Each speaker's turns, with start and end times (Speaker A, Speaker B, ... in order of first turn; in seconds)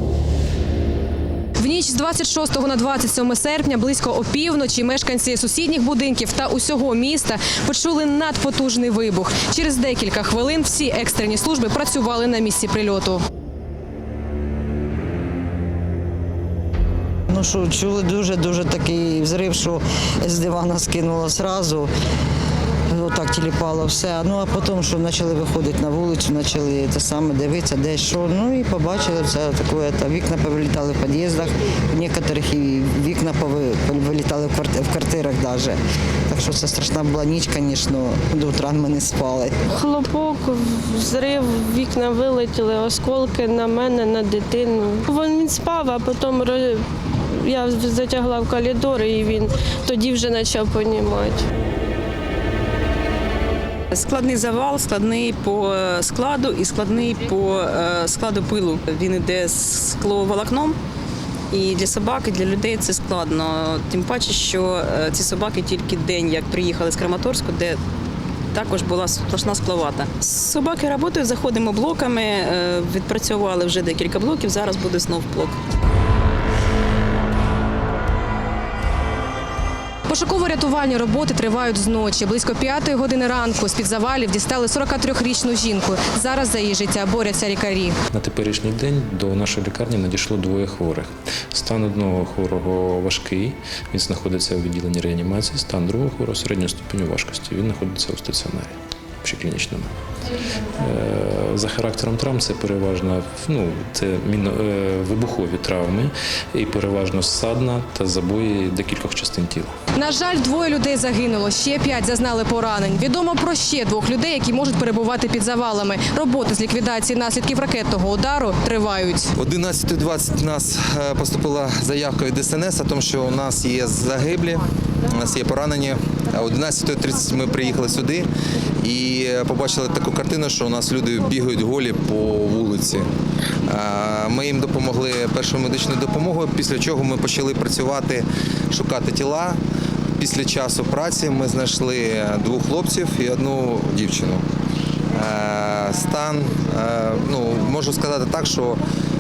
Speaker A: 1.6-13.2, 80.1-88.0, 110.0-119.3
Speaker B: 17.3-21.9, 22.9-35.8, 36.3-39.5
Speaker C: 39.7-51.4
Speaker D: 53.9-60.8, 61.5-67.8, 68.5-75.6
Speaker E: 88.1-99.9, 100.8-109.7
Speaker F: 119.4-128.3, 128.8-133.1, 133.7-139.6, 140.2-144.4, 145.1-148.8